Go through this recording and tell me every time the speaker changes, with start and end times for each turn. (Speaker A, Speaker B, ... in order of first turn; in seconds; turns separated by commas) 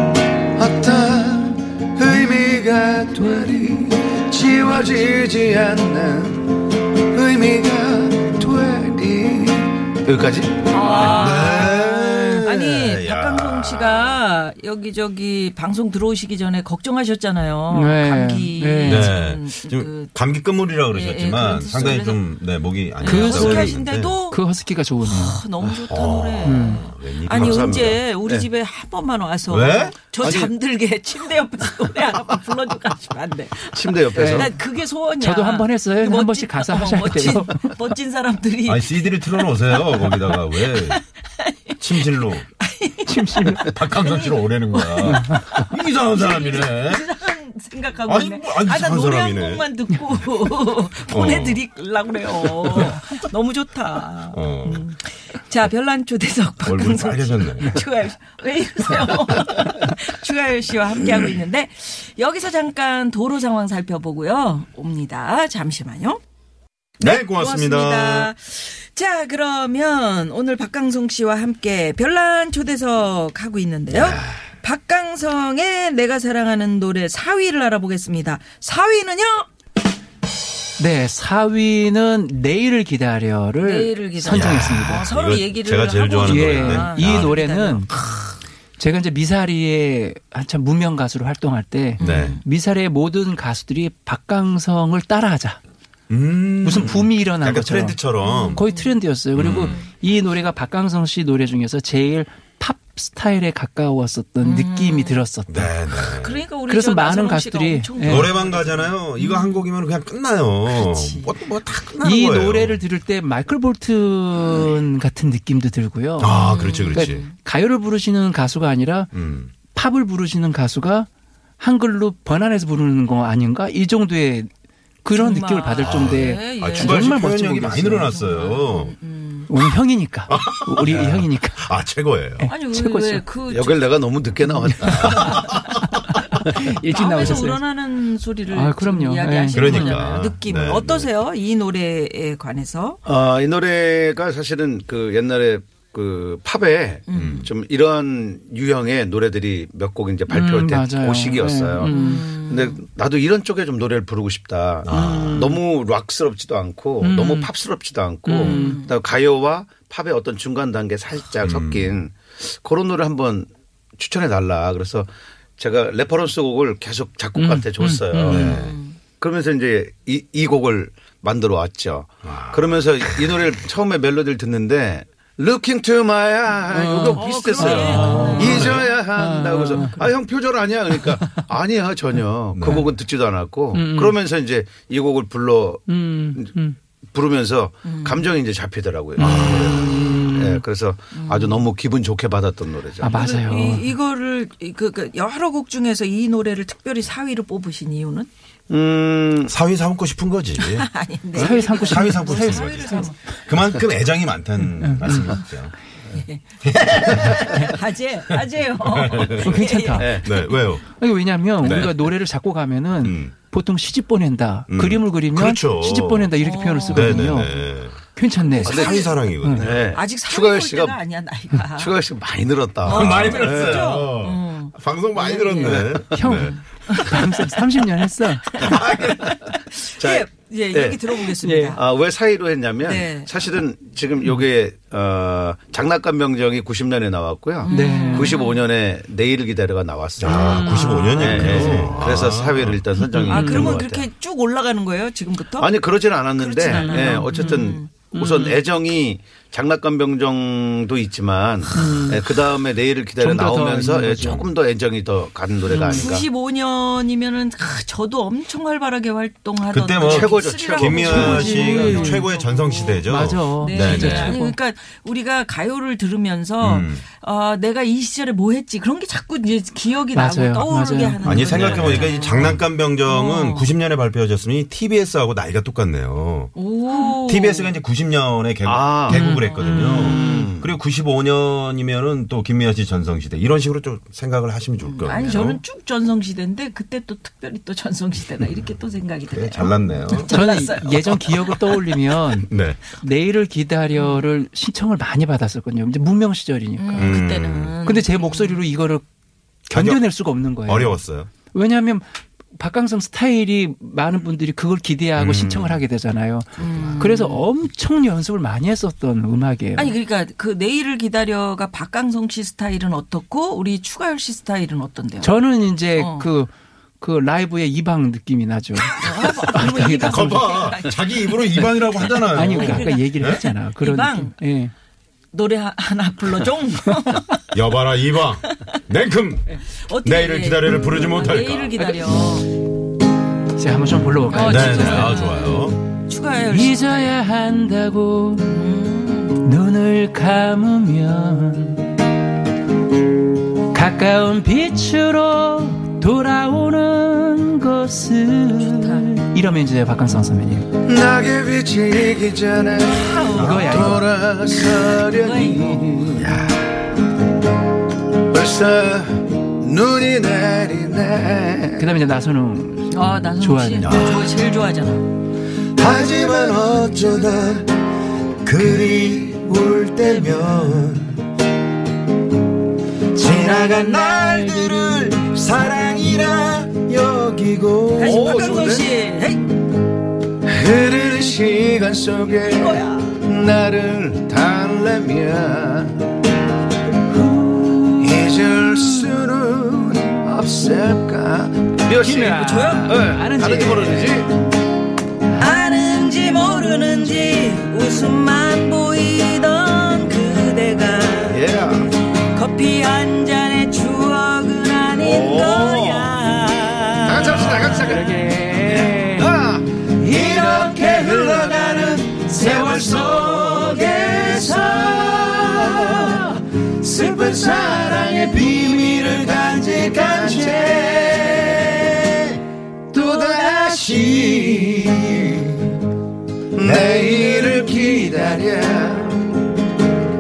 Speaker A: 0.6-11.7, Speaker B: 10.7-20.1, Speaker C: 10.9-14.2, Speaker D: 17.7-19.2, Speaker C: 18.8-24.2, Speaker B: 20.9-22.3, Speaker B: 23.0-24.4, Speaker D: 23.0-25.4, Speaker B: 25.0-66.2, Speaker C: 25.9-28.0, Speaker D: 26.4-26.9, Speaker A: 27.3-28.5, Speaker C: 29.5-30.0, Speaker A: 30.2-30.5, Speaker A: 33.7-34.5, Speaker D: 34.1-34.5, Speaker D: 35.2-37.8, Speaker C: 38.6-41.0, Speaker C: 41.8-42.5, Speaker D: 43.0-43.8, Speaker C: 43.6-47.1, Speaker D: 45.0-45.5, Speaker C: 48.1-49.7, Speaker C: 51.1-51.7, Speaker C: 52.6-52.9, Speaker C: 54.3-54.9, Speaker C: 56.6-57.8, Speaker B: 67.0-79.5, Speaker C: 67.0-68.3, Speaker C: 73.9-74.4, Speaker D: 80.8-85.1, Speaker B: 83.6-88.4, Speaker C: 84.3-87.4, Speaker D: 86.2-88.0, Speaker D: 88.8-95.6, Speaker C: 92.0-92.4, Speaker B: 92.0-92.4, Speaker C: 96.1-98.7, Speaker D: 96.6-98.0, Speaker B: 98.2-99.9, Speaker D: 98.5-105.8, Speaker C: 99.3-99.8, Speaker B: 104.4-105.3, Speaker C: 105.5-106.4, Speaker B: 106.1-109.7, Speaker D: 106.7-108.3, Speaker C: 108.0-112.8, Speaker B: 110.7-111.3, Speaker D: 112.0-116.4, Speaker C: 116.2-117.3, Speaker B: 116.3-117.3, Speaker D: 116.9-121.1, Speaker C: 119.1-119.5, Speaker D: 121.6-124.5, Speaker D: 125.0-128.1, Speaker B: 125.1-127.1, Speaker C: 125.8-128.9, Speaker B: 127.9-129.5, Speaker D: 129.5-131.7, Speaker C: 130.3-132.5, Speaker D: 132.4-133.2, Speaker B: 132.5-134.0, Speaker A: 133.5-135.3, Speaker D: 134.4-135.5, Speaker C: 134.8-135.4, Speaker B: 135.1-135.8, Speaker D: 136.1-137.6, Speaker B: 136.8-143.0, Speaker D: 138.5-140.1, Speaker C: 139.5-141.1, Speaker A: 143.1-168.6, Speaker B: 147.1-147.5, Speaker C: 147.1-147.5, Speaker D: 150.3-152.2, Speaker B: 151.8-152.8, Speaker C: 154.8-155.4, Speaker D: 154.9-155.6, Speaker D: 157.0-157.5, Speaker D: 158.3-158.8, Speaker B: 158.4-159.0, Speaker C: 161.4-162.0, Speaker D: 167.4-168.6, Speaker C: 168.2-168.8, Speaker B: 168.3-169.0, Speaker A: 169.2-185.8, Speaker C: 172.2-173.4, Speaker D: 176.7-180.1, Speaker B: 177.0-179.0, Speaker C: 177.9-178.8, Speaker B: 179.7-180.1, Speaker D: 180.9-181.3, Speaker C: 182.5-182.9, Speaker D: 182.6-182.9, Speaker D: 183.7-184.2, Speaker D: 185.9-186.8, Speaker A: 187.1-193.7, Speaker B: 187.8-188.3, Speaker D: 189.2-190.6, Speaker C: 189.2-190.1, Speaker B: 189.3-189.7, Speaker B: 191.1-191.7, Speaker D: 193.0-193.9, Speaker B: 193.1-198.3, Speaker A: 198.7-199.5, Speaker C: 199.5-200.9, Speaker B: 200.6-203.4, Speaker D: 201.3-203.1, Speaker C: 201.4-205.8, Speaker D: 204.7-205.4, Speaker B: 205.1-205.4, Speaker B: 206.2-210.6, Speaker C: 206.6-207.8, Speaker C: 208.3-210.8, Speaker D: 209.4-210.2, Speaker A: 210.0-210.2, Speaker D: 210.9-219.7, Speaker C: 211.6-212.1, Speaker C: 213.0-213.3, Speaker C: 214.7-216.3, Speaker B: 216.4-217.6, Speaker C: 216.9-218.0, Speaker B: 218.5-219.2, Speaker C: 218.6-219.9, Speaker A: 218.6-221.0, Speaker B: 219.9-221.9, Speaker A: 221.8-224.1, Speaker B: 222.8-227.8, Speaker C: 222.8-226.6, Speaker A: 225.6-226.0, Speaker D: 226.1-228.8, Speaker B: 228.5-231.8, Speaker C: 228.6-229.3, Speaker A: 230.0-231.0, Speaker D: 231.4-231.8, Speaker A: 231.8-244.1, Speaker B: 232.8-233.3, Speaker B: 237.6-238.7, Speaker D: 237.7-238.4, Speaker D: 240.2-242.1, Speaker C: 240.2-242.8, Speaker D: 243.0-243.8, Speaker B: 243.2-248.6, Speaker A: 245.6-256.3, Speaker D: 246.7-248.5, Speaker D: 251.7-252.4, Speaker D: 253.2-254.5, Speaker C: 254.2-254.4, Speaker D: 255.7-256.1, Speaker B: 255.7-273.7, Speaker C: 259.7-264.4, Speaker A: 260.1-262.1, Speaker D: 261.1-262.2, Speaker D: 263.1-264.6, Speaker C: 266.6-267.0, Speaker D: 270.1-271.9, Speaker C: 271.2-276.5, Speaker A: 271.8-272.4, Speaker B: 276.6-277.7, Speaker C: 277.2-285.6, Speaker A: 278.6-279.2, Speaker D: 279.1-280.5, Speaker B: 279.3-280.3, Speaker A: 279.8-280.7, Speaker B: 284.8-291.8, Speaker C: 289.3-290.4, Speaker D: 290.2-297.2, Speaker C: 292.4-292.8, Speaker B: 293.9-294.2, Speaker B: 296.8-298.7, Speaker C: 296.9-297.8, Speaker D: 297.8-299.1, Speaker C: 299.7-300.1, Speaker D: 299.7-301.0, Speaker C: 300.6-301.3, Speaker D: 301.5-309.9, Speaker C: 305.2-305.8, Speaker C: 306.6-307.1, Speaker B: 306.6-307.5, Speaker B: 309.8-316.3, Speaker D: 315.2-320.6, Speaker B: 318.9-324.4, Speaker C: 319.5-323.4, Speaker D: 322.3-324.7, Speaker B: 325.3-327.3, Speaker C: 327.5-331.8, Speaker B: 329.8-332.5, Speaker D: 333.6-335.2, Speaker B: 334.3-337.1, Speaker C: 334.4-335.8, Speaker D: 336.5-338.6, Speaker B: 338.4-339.4, Speaker D: 339.4-342.0, Speaker D: 343.7-350.7, Speaker B: 348.5-349.1, Speaker A: 350.9-356.4, Speaker B: 352.9-355.8, Speaker C: 353.4-354.0, Speaker D: 353.4-354.1, Speaker C: 356.1-356.6, Speaker A: 358.3-361.9, Speaker D: 361.8-364.1, Speaker B: 362.9-365.0, Speaker C: 363.8-364.3, Speaker C: 365.8-367.7, Speaker A: 365.8-367.4, Speaker C: 368.4-371.2, Speaker C: 373.1-378.4, Speaker B: 373.2-374.4, Speaker B: 378.0-379.5, Speaker A: 378.0-378.9, Speaker A: 380.4-386.1, Speaker B: 382.4-383.2, Speaker D: 387.2-389.1, Speaker A: 388.0-394.3, Speaker D: 392.0-394.2, Speaker B: 392.3-392.9, Speaker B: 395.4-401.5, Speaker D: 395.4-397.5, Speaker A: 401.3-401.9, Speaker B: 402.3-407.9, Speaker A: 405.0-406.2, Speaker A: 407.1-416.2, Speaker C: 407.3-407.8, Speaker D: 407.4-409.3, Speaker D: 410.0-421.8, Speaker A: 417.5-421.4, Speaker D: 422.9-425.4, Speaker A: 423.0-424.0, Speaker A: 426.6-429.4, Speaker C: 426.6-427.2